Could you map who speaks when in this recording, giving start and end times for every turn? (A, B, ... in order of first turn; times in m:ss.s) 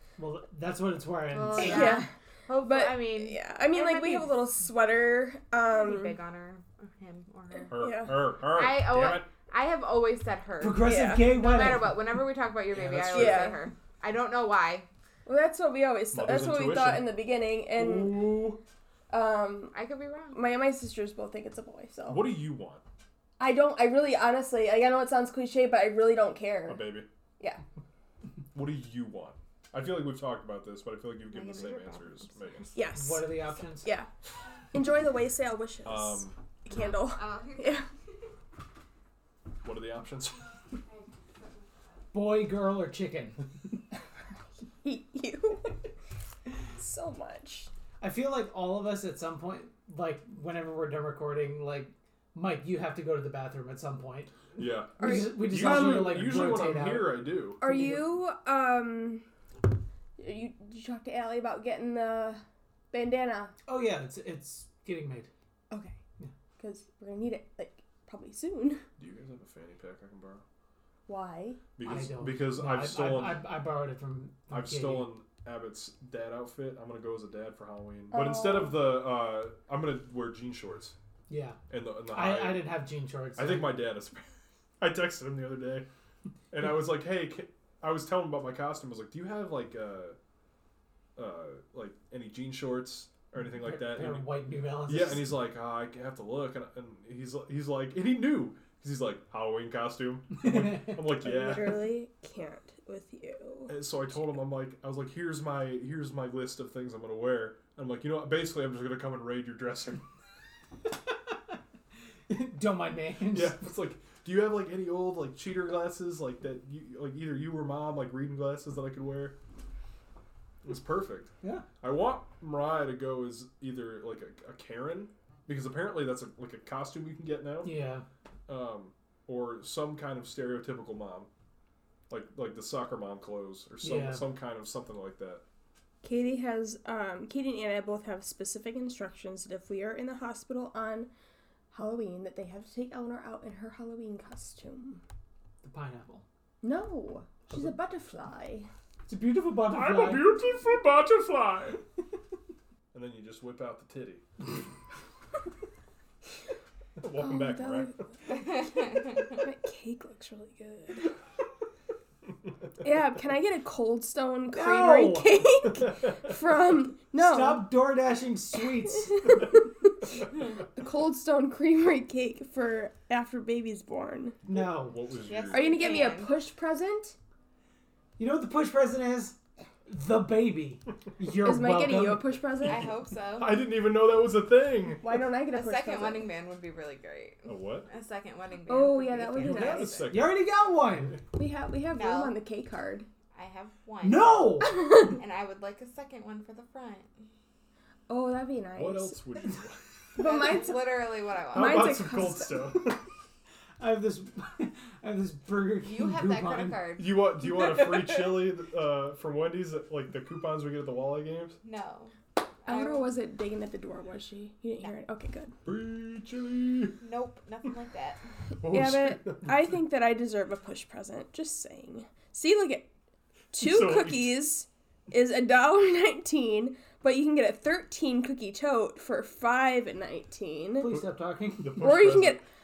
0:00.2-0:02.0 A
0:01.3-0:04.4 B
0:01.6-0:02.1 C
0:02.6-0:06.2 C
0:05.7-0:07.9 B
0:07.6-0:08.2 C
0:07.7-0:09.3 D
0:08.4-0:14.9 B
0:10.6-0:12.0 A
0:10.8-0:11.3 C
0:12.7-0:13.5 A
0:13.1-0:13.6 C
0:15.3-0:18.5 C
0:16.1-0:17.1 D
0:17.7-0:18.6 D
0:19.1-0:19.7 C
0:19.7-0:20.4 B
0:20.3-0:22.3 C
0:22.1-0:22.8 D
0:23.4-0:26.8 C
0:26.7-0:27.1 D
0:28.5-0:32.7 D
0:31.3-0:32.8 B
0:32.7-0:34.1 C
0:33.0-0:33.9 A
0:34.7-0:37.9 C
0:35.8-0:36.4 D
0:36.7-0:37.9 B
0:39.6-0:40.5 D
0:42.1-0:43.5 A
0:44.8-0:45.8 C
0:46.8-0:47.7 C
0:48.0-0:54.5 A
0:54.6-0:57.6 D
0:55.0-0:56.2 C
0:55.0-0:58.0 A
0:57.6-0:59.2 C
1:00.2-1:03.5 C
1:03.7-1:05.3 A
1:05.7-1:06.0 C
1:06.6-1:08.8 C
1:09.0-1:10.4 D
1:11.1-1:11.6 C
1:11.8-1:13.5 D
1:11.8-1:15.1 A
1:14.5-1:21.0 D
1:18.1-1:18.8 C
1:21.3-1:21.6 A
1:21.7-1:22.8 D
1:22.1-1:23.8 A
1:23.4-1:24.3 D
1:24.8-1:25.9 D
1:26.5-1:30.2 D
1:31.2-1:34.2 D
1:33.5-1:35.3 A
1:34.9-1:41.9 D
1:40.4-1:41.0 A
1:41.2-1:43.7 C
1:43.7-1:50.0 D
1:52.3-1:53.6 A
1:53.3-1:59.4 D
2:00.6-2:07.7 D
2:07.6-2:08.1 A
2:08.5-2:11.3 D
2:12.1-2:15.4 D
2:13.8-2:14.2 A
2:16.0-2:21.1 C
2:21.7-2:25.0 C
2:25.6-2:26.2 A
2:26.6-2:28.7 C
2:29.1-2:30.3 A
2:29.7-2:31.8 D
2:32.9-2:34.2 D
2:37.0-2:38.0 D
2:37.2-2:41.1 C
2:38.7-2:39.2 B
2:42.8-2:47.7 C
2:44.5-2:45.4 A
2:45.7-2:46.3 D
2:47.2-2:49.2 A
2:48.9-2:49.9 C
2:50.7-2:54.4 C
2:54.4-2:55.9 D
2:54.5-2:55.0 A
2:55.3-2:56.4 B
2:55.5-2:57.2 C
2:58.2-3:02.4 A
3:01.4-3:02.9 C
3:02.6-3:03.6 B
3:03.4-3:05.1 D
3:05.0-3:06.3 C
3:05.5-3:10.0 B
3:07.5-3:07.9 D
3:08.7-3:10.1 C
3:09.4-3:11.2 D
3:10.1-3:11.2 A
3:11.4-3:13.1 C
3:11.9-3:12.4 B
3:13.3-3:17.2 B
3:14.0-3:14.8 A
3:14.6-3:15.2 C
3:18.1-3:19.2 C
3:18.8-3:19.8 D
3:20.2-3:22.9 C
3:20.2-3:21.9 B
3:21.5-3:23.0 D
3:23.8-3:26.8 A
3:25.8-3:28.4 B
3:27.0-3:31.6 D
3:31.6-3:32.2 B
3:32.7-3:33.1 B
3:32.7-3:35.5 C
3:35.6-3:37.0 D
3:37.0-3:38.2 B
3:38.6-3:39.7 D
3:38.6-3:42.9 C
3:43.5-3:50.9 C
3:43.6-3:44.4 D
3:50.8-3:52.0 A
3:51.6-3:52.4 D
3:51.7-3:52.4 C